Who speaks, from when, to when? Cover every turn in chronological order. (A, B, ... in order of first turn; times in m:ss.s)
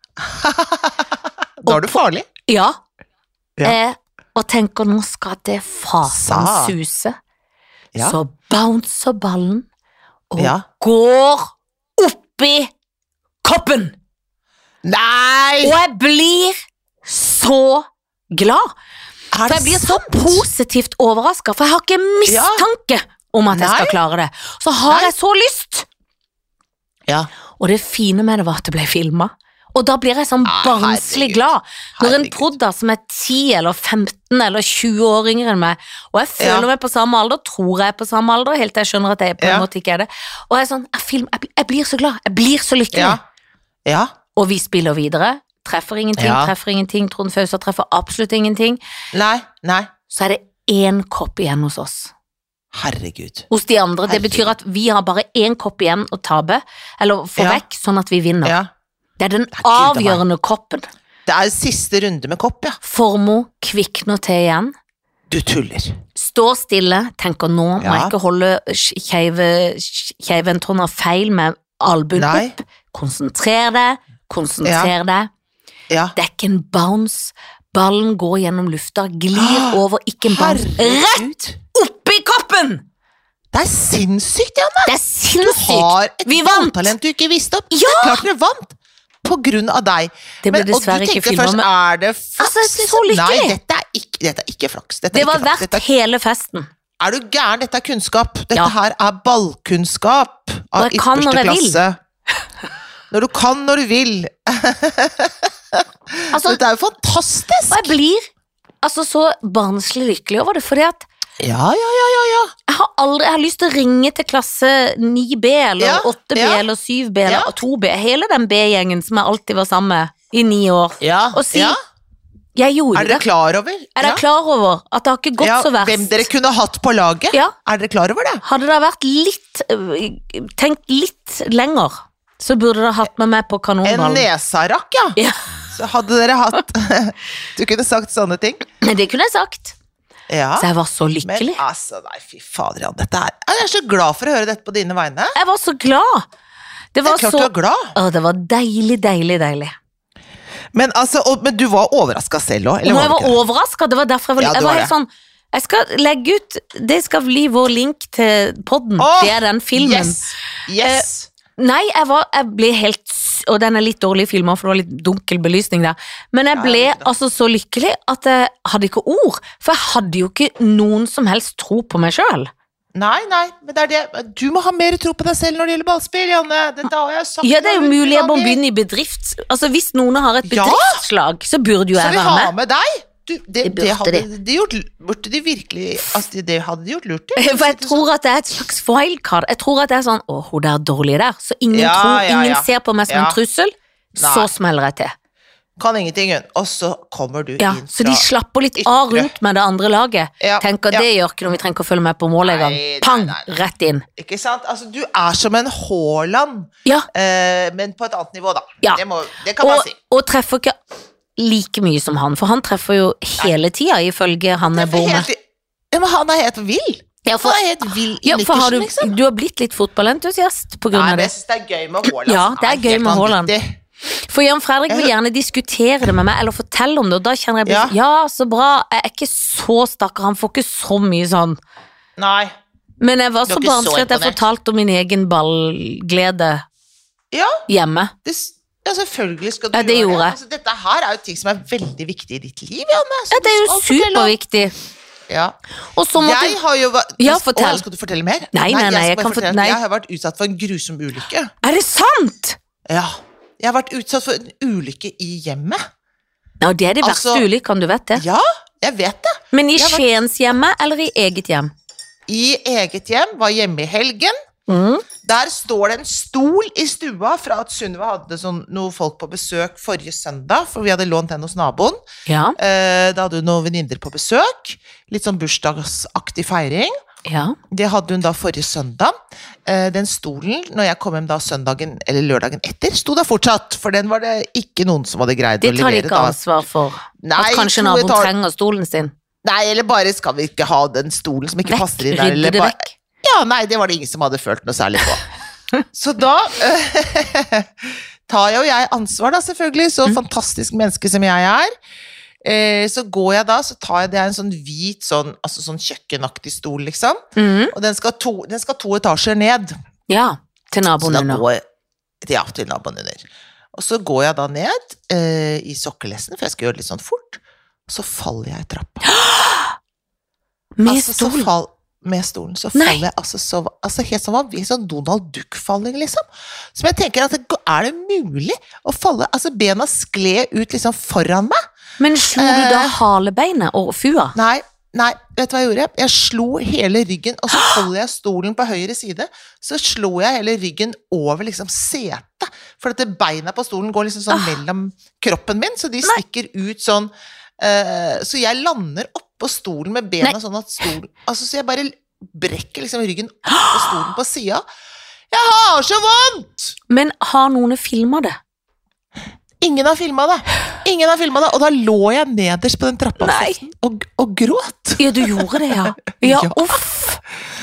0:00.2-0:02.3 A
0:01.6-0:02.8 B
0:03.6-0:07.2 B
0:06.0-0:06.7 A
0:08.0-0:09.6 B
0:10.3-0:12.7 B
0:10.4-0:10.6 A
0:13.4-0:13.9 B
0:14.8-0:15.8 A
0:15.6-0:18.7 B
0:19.3-0:20.5 A
0:19.5-0:25.9 B
0:22.3-0:22.6 A
0:23.5-0:24.0 A
0:27.6-0:43.2 B
0:30.4-0:32.5 A
0:36.4-0:36.7 A
0:39.4-0:39.6 A
0:42.9-0:43.2 A
0:43.8-0:44.1 A
0:44.4-0:48.8 B
0:46.2-0:46.5 A
0:49.1-0:49.9 A
0:50.1-0:52.1 B
0:52.7-0:53.5 A
0:53.5-0:58.6 B
0:54.0-0:54.5 A
0:57.4-0:57.6 A
0:58.4-0:58.7 A
0:59.2-1:00.9 B
0:59.5-1:00.2 A
1:01.2-1:02.8 A
1:02.8-1:04.7 B
1:05.3-1:06.0 A
1:06.2-1:15.3 B
1:07.8-1:08.1 A
1:12.1-1:12.5 A
1:14.6-1:14.9 A
1:16.1-1:22.8 B
1:19.3-1:21.6 A
1:23.5-1:35.8 A
1:24.8-1:26.9 B
1:27.7-1:28.2 B
1:30.4-1:31.7 B
1:32.4-1:33.6 B
1:35.1-1:36.7 B
1:37.0-1:42.0 A
1:40.8-1:41.8 B
1:43.1-1:47.9 A
1:46.3-1:46.6 B
1:47.7-1:48.2 B
1:48.8-1:51.1 B
1:51.4-1:52.5 A
1:52.7-2:01.8 B
1:55.8-1:56.6 A
1:57.2-1:57.5 A
2:01.0-2:01.8 A
2:02.6-2:03.2 B
2:02.9-2:04.2 A
2:04.0-2:06.3 B
2:05.4-2:08.4 A
2:08.4-2:14.3 B
2:13.8-2:15.2 A
2:15.2-2:15.4 B
2:15.7-2:18.6 A
2:18.8-2:19.8 B
2:20.3-2:20.7 A
2:20.6-2:21.6 B
2:21.2-2:25.3 A
2:25.4-2:26.2 B
2:26.9-2:29.7 B
2:27.0-2:27.9 A
2:30.7-2:33.4 A
2:32.8-2:40.2 B
2:34.4-2:34.9 A
2:39.0-2:41.3 A
2:40.8-2:41.0 B
2:41.6-2:52.5 B
2:46.5-2:47.1 A
2:52.9-2:58.6 A
2:57.4-3:02.5 B
3:00.4-3:01.0 A
3:01.9-3:08.0 A
3:03.6-3:04.3 B
3:07.4-3:15.1 B
3:11.7-3:13.4 A
3:14.2-3:14.5 A
3:15.8-3:18.2 A
3:17.6-3:24.0 B
3:18.8-3:19.3 A
3:20.4-3:21.0 A
3:22.4-3:23.5 A
3:24.2-3:29.9 A
3:29.6-3:30.8 B
3:31.4-3:35.3 B
3:34.6-3:35.4 A
3:35.9-3:39.2 A
3:37.2-3:37.6 B
3:38.2-3:41.3 B
3:40.9-3:43.8 A
3:42.2-3:43.5 B
3:44.2-3:51.6 B
3:47.6-3:47.9 A
3:52.2-3:52.5 A
3:53.0-3:56.6 B
3:53.5-3:54.4 A
3:57.3-3:57.6 A
3:57.7-3:58.1 B
3:58.2-4:04.4 A
3:59.7-4:00.4 B
4:03.3-4:04.7 B
4:05.3-4:05.5 A
4:05.9-4:06.6 B
4:06.2-4:11.5 A
4:07.2-4:07.8 B
4:08.5-4:09.8 B
4:11.6-4:12.6 B
4:12.9-4:15.8 A
4:16.6-4:18.2 B
4:17.0-4:17.4 A
4:18.1-4:20.0 A
4:19.5-4:21.7 B
4:22.3-4:24.3 A
4:24.7-4:25.0 B
4:25.2-4:32.0 A
4:32.2-4:32.6 B
4:32.6-4:36.9 A
4:37.2-4:37.6 B
4:37.7-4:39.1 A
4:39.6-4:46.4 A
4:45.6-4:49.1 B
4:47.2-4:48.3 A
4:49.4-4:55.2 A
4:51.7-4:52.9 B
4:55.9-5:01.7 A
5:02.4-5:07.2 A
5:07.4-5:07.7 B
5:07.7-5:09.7 A
5:10.1-5:11.4 B
5:11.0-5:11.6 A
5:12.2-5:19.0 A
5:19.0-5:19.7 B
5:20.8-5:21.5 B
5:20.8-5:31.6 A
5:22.7-5:23.0 B
5:32.0-5:34.3 B
5:32.4-5:33.0 A
5:34.3-5:54.6 A
5:55.3-5:56.7 A
5:56.9-5:58.4 B
5:59.6-6:06.8 A
6:03.2-6:03.6 B
6:05.0-6:07.2 B